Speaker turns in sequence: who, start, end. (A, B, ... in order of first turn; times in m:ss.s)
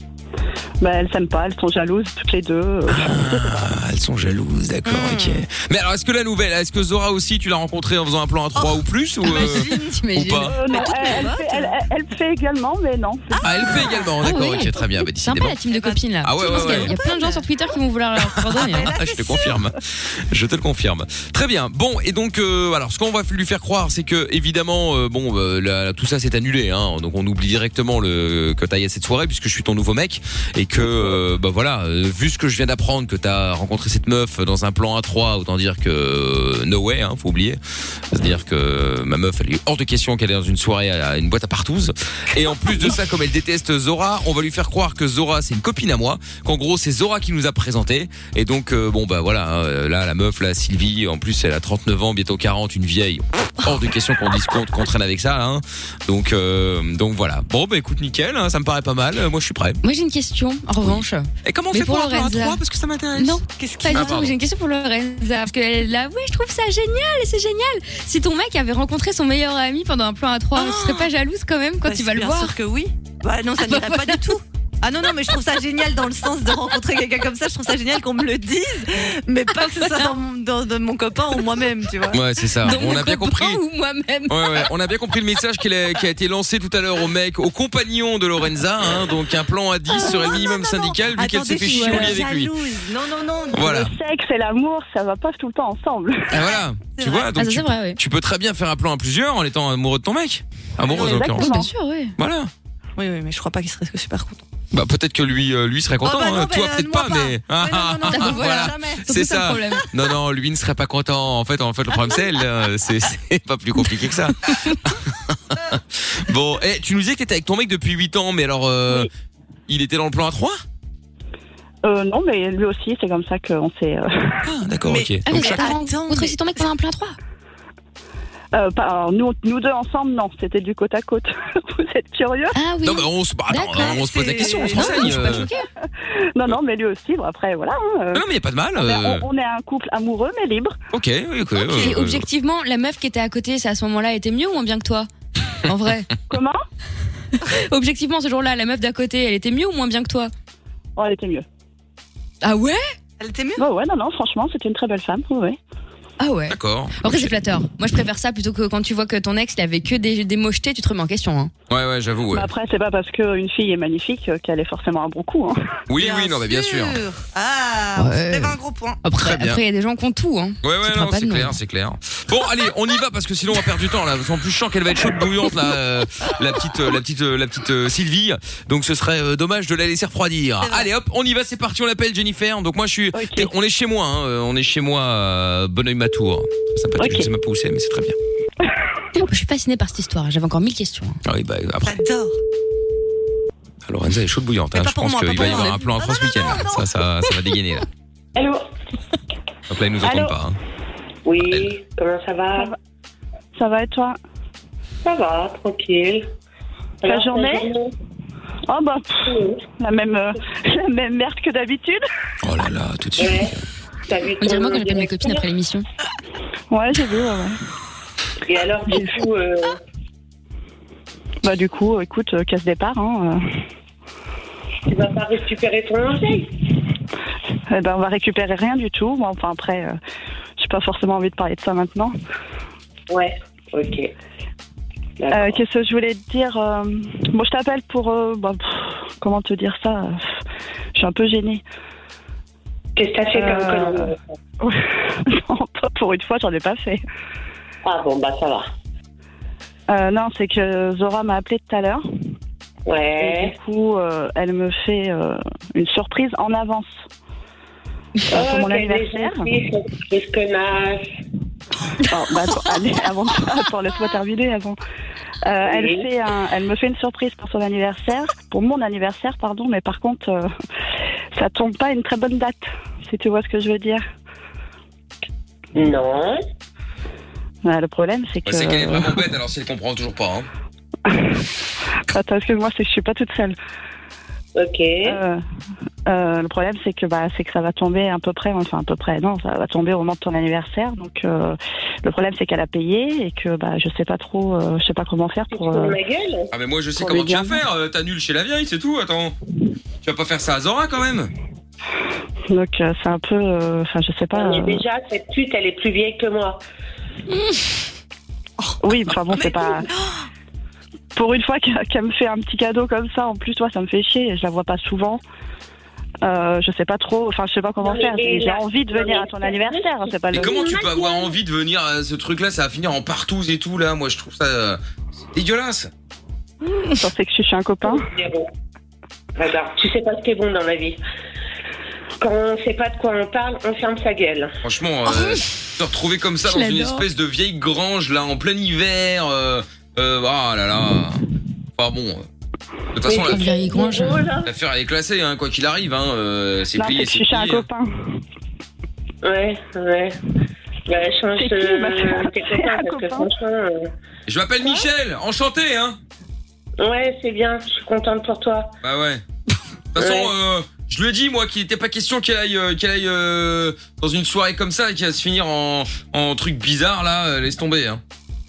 0:00.8-0:03.5 A
0:02.9-0:10.6 B
0:04.9-0:05.4 C
0:08.6-0:10.0 C
0:09.2-0:10.6 D
0:10.5-0:13.4 A
0:10.6-0:11.8 C
0:13.3-0:14.1 C
0:13.4-0:15.6 B
0:14.2-0:18.9 D
0:15.7-0:17.5 C
0:16.2-0:17.0 B
0:18.6-0:19.6 C
0:18.8-0:37.6 B
0:38.1-0:59.8 B
0:59.8-1:02.6 D
1:00.8-1:03.4 B
1:03.2-1:12.6 D
1:03.4-1:04.3 C
1:03.9-1:04.4 B
1:10.6-1:11.1 C
1:11.8-1:22.2 C
1:13.6-1:14.2 D
1:22.1-1:23.6 B
1:22.6-1:24.7 D
1:24.3-1:32.5 B
1:29.9-1:33.7 C
1:31.9-1:32.2 D
1:33.5-1:33.9 B
1:33.6-1:36.3 A
1:36.3-1:41.5 B
1:36.3-1:37.3 C
1:37.4-1:38.0 D
1:40.9-1:41.2 C
1:41.0-1:42.1 D
1:41.0-1:41.7 A
1:42.2-1:42.5 B
1:43.0-1:44.4 C
1:44.7-1:59.1 B
1:46.0-1:49.0 C
1:48.1-1:49.8 D
1:59.7-2:00.6 B
2:01.8-2:04.4 A
2:04.4-2:05.6 B
2:04.8-2:06.6 C
2:05.3-2:07.2 D
2:08.5-2:12.6 A
2:12.5-2:15.6 D
2:12.8-2:15.5 B
2:13.8-2:15.3 C
2:16.0-2:18.2 A
2:18.1-2:19.2 B
2:18.8-2:20.8 A
2:20.9-2:22.3 B
2:21.7-2:25.1 D
2:25.6-2:26.1 D
2:26.3-2:26.6 A
2:27.5-2:30.3 D
2:31.0-2:31.4 A
2:32.4-2:32.8 D
2:33.2-2:33.7 C
2:33.6-2:35.6 A
2:36.2-2:41.5 D
2:36.5-2:37.4 B
2:41.7-2:42.5 B
2:42.3-2:45.6 A
2:45.9-2:47.0 B
2:46.0-2:49.0 C
2:48.0-2:51.6 D
2:49.2-2:49.6 B
2:50.6-3:08.2 B
3:00.6-3:00.9 C
3:03.1-3:03.5 A
3:07.0-3:07.3 A
3:09.2-3:11.2 D
3:11.2-3:12.0 B
3:11.8-3:12.3 C
3:13.8-3:17.9 B
3:14.7-3:17.4 C
3:18.4-3:18.6 E
3:19.7-3:20.6 B
3:21.2-3:22.7 E
3:23.6-3:24.2 A
3:25.0-3:26.2 E
3:27.0-3:27.9 E
3:27.1-3:27.7 A
3:28.7-3:32.0 A
3:29.3-3:29.6 E
3:32.4-3:33.6 B
3:33.2-3:33.5 E
3:34.1-3:35.5 E
3:34.4-3:35.8 D
3:36.7-3:37.6 A
3:38.5-3:39.8 E
3:38.9-3:39.2 A
3:41.4-3:43.4 A
3:44.9-3:46.5 E
3:47.7-3:50.0 A
3:50.6-3:52.1 A
3:53.1-3:54.1 E
3:55.2-3:55.6 E
3:55.3-4:00.3 A
4:01.0-4:01.6 A
4:03.0-4:04.2 E
4:03.3-4:04.1 A
4:04.6-4:07.0 A
4:07.8-4:08.7 E
4:09.9-4:12.0 A
4:12.9-4:13.5 E
4:13.2-4:16.9 A
4:18.3-4:19.4 A
4:18.3-4:21.0 E
4:22.1-4:24.8 A
4:25.4-4:30.5 A
4:25.6-4:26.1 E
4:31.3-4:34.0 A
4:35.8-4:36.4 E
4:37.6-4:39.2 A
4:38.4-4:40.5 B
4:41.1-4:41.4 A
4:42.1-4:43.6 A
4:44.6-4:45.2 E
4:45.1-4:45.4 A
4:46.1-4:56.0 A
4:55.5-4:56.5 E
4:56.5-4:59.4 B
4:57.0-4:57.6 A
5:00.0-5:01.3 B
5:02.5-5:04.8 A
5:04.3-5:06.6 E
5:08.8-5:09.9 A
5:09.3-5:10.2 C
5:11.1-5:15.2 A
5:16.2-5:20.6 A
5:17.8-5:21.3 E
5:20.3-5:24.8 B
5:25.3-5:25.9 B
5:27.0-5:28.0 A
5:27.8-5:28.5 E
5:29.4-5:31.0 E
5:32.2-5:34.5 E
5:34.6-5:41.2 B
5:36.4-5:37.0 D
5:41.8-5:42.2 B
5:42.9-5:43.5 B
5:43.1-5:44.5 E
5:43.2-5:44.2 D
5:44.4-5:47.7 B
5:46.7-5:48.1 A
5:49.2-5:50.2 E
5:50.9-5:53.9 E
5:51.4-5:53.3 A
5:54.3-5:56.0 B
5:56.8-5:58.7 E
5:58.8-5:59.2 B
5:59.9-6:08.0 B
6:00.0-6:00.3 E